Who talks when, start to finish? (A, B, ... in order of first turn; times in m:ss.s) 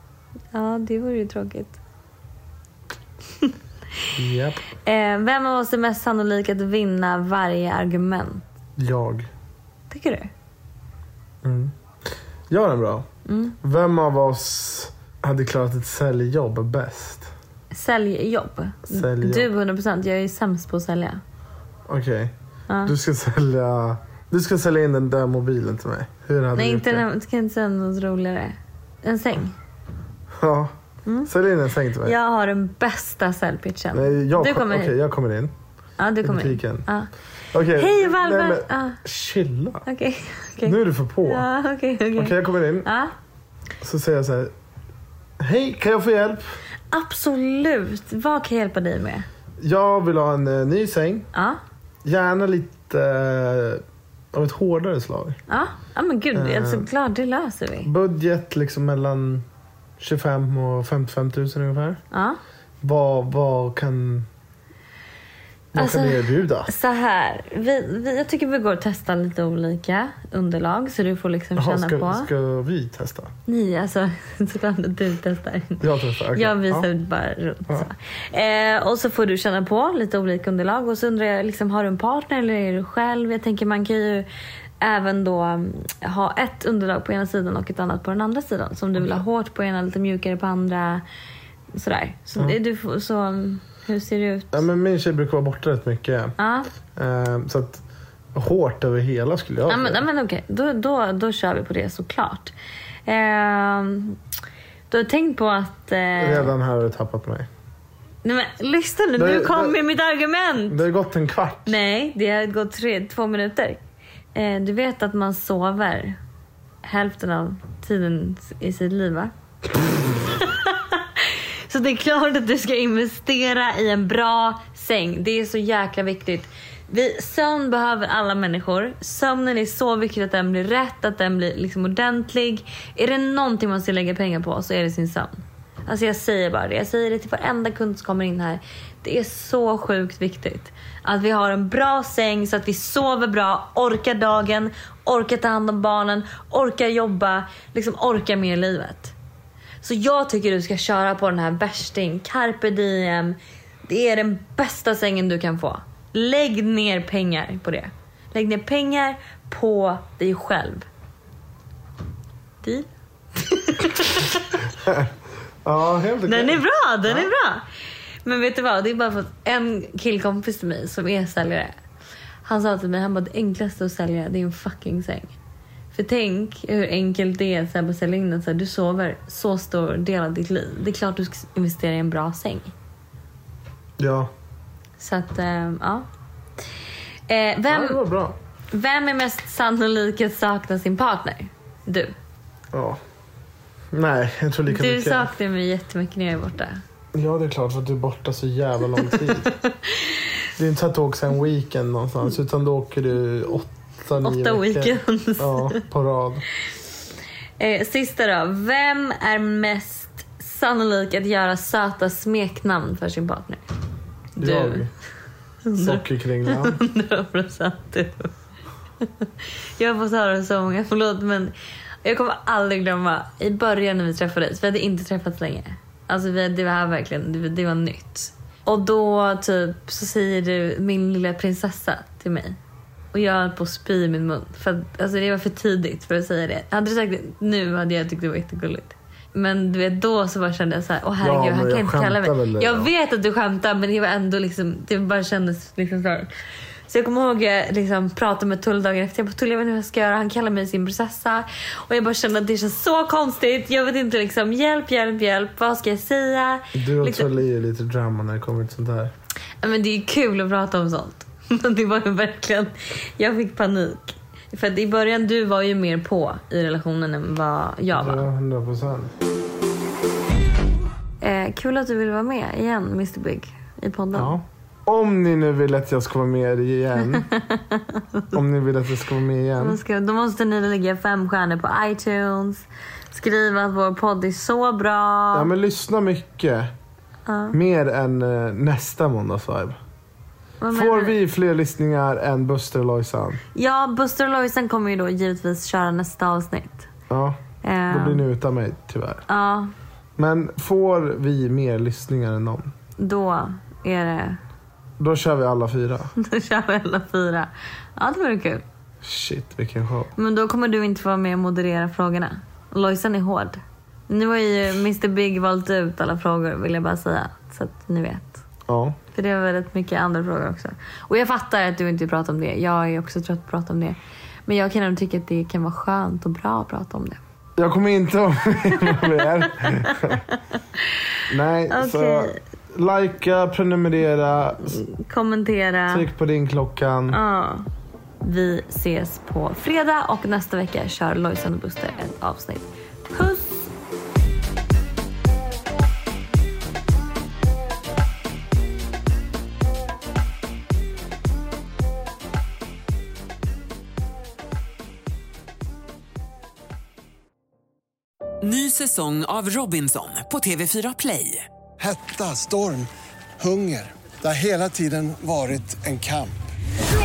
0:00.5-0:01.8 A
0:04.2-0:04.6 B
0:04.8-0:08.4 A
0:08.8-0:09.3 B
0:09.9-0:10.3 A
0:11.4-0:11.7 B
0:12.5-0:13.1 B
0:13.2-0:13.5 A
0:13.6-0:17.3 B
0:17.7-0:21.2 A
0:18.9-0:19.5 B
0:21.9-0:22.3 B
0:22.8-0:27.0 B
0:26.5-0:29.5 A
0:30.4-0:30.7 B
0:31.0-0:31.3 A
0:31.2-0:32.1 B
0:32.0-0:34.9 A
0:33.9-0:35.5 B
0:36.0-0:37.1 A
0:36.2-0:36.9 B
0:37.5-0:39.8 B
0:37.7-0:39.0 A
0:39.8-0:43.1 A
0:40.6-0:41.5 B
0:42.2-0:42.9 B
0:43.8-0:44.5 B
0:45.4-0:46.4 B
0:46.9-0:49.2 A
0:49.6-0:51.3 B
0:52.0-0:55.4 B
0:55.5-0:57.9 A
0:56.3-0:56.9 B
0:57.8-0:59.4 B
1:00.0-1:02.0 B
1:02.1-1:02.4 A
1:02.8-1:04.3 B
1:05.7-1:06.7 B
1:05.7-1:12.3 A
1:11.6-1:13.3 B
1:13.5-1:15.8 A
1:15.8-1:16.9 B
1:16.3-1:24.3 A
1:24.8-1:31.0 A
1:31.7-1:34.6 A
1:34.5-1:36.3 B
1:36.4-1:36.7 A
1:36.9-1:37.8 B
1:38.3-1:40.0 B
1:39.7-1:42.5 A
1:43.0-1:44.2 A
1:44.9-1:46.5 A
1:46.2-1:47.5 B
1:48.2-1:50.8 A
1:49.2-1:49.8 B
1:50.7-1:51.8 B
1:51.6-1:53.8 A
1:54.3-1:56.2 A
1:56.8-1:59.3 A
2:00.3-2:29.1 A
2:29.8-2:40.8 A
2:42.6-2:44.6 A
2:44.8-2:45.1 B
2:45.6-2:47.3 B
2:46.2-2:47.6 A
2:48.2-2:51.7 A
2:52.4-2:55.3 A
2:55.9-3:02.7 A
3:04.0-3:04.3 B
3:05.0-3:06.0 A
3:07.3-3:08.0 A
3:07.7-3:08.4 B
3:08.7-3:12.1 A
3:12.7-3:13.0 B
3:13.9-3:15.3 B
3:14.7-3:16.8 A
3:17.1-3:19.5 B
3:19.3-3:20.1 A
3:20.6-3:26.4 B
3:24.2-3:25.8 A
3:27.6-3:33.6 A
3:34.4-3:34.9 B
3:34.4-3:34.8 A
3:35.6-3:38.3 A
3:35.8-3:36.8 B
3:39.8-3:41.5 A
3:42.0-3:52.6 A
3:53.1-4:06.3 A
4:01.2-4:02.9 B
4:06.9-4:17.3 A
4:16.7-4:19.1 B
4:19.6-4:28.3 A
4:27.9-4:29.1 B
4:31.2-4:34.4 A
4:34.1-4:37.2 B
4:37.1-4:38.3 A
4:38.3-4:39.8 B
4:39.6-4:45.5 A
4:45.3-4:46.7 B
4:47.3-4:47.5 A
4:47.5-4:49.8 B
4:50.6-4:51.2 A
4:50.7-4:53.4 B
4:53.5-4:56.9 A
4:57.1-4:59.2 B
4:57.6-4:58.2 A
4:59.3-4:59.7 A
5:00.2-5:02.7 B
5:03.0-5:04.4 A
5:05.0-5:06.1 B
5:06.2-5:08.6 A
5:09.0-5:10.1 B
5:10.2-5:18.4 A
5:18.7-5:19.0 B
5:19.1-5:27.2 A
5:27.6-5:30.2 B
5:31.3-5:34.8 B
5:31.7-5:32.4 A
5:34.7-5:36.1 A
5:35.9-5:37.2 B
5:37.1-5:37.7 A
5:38.2-5:43.7 A
5:58.4-6:01.5 C
6:01.8-6:02.9 D
6:03.4-6:06.4 D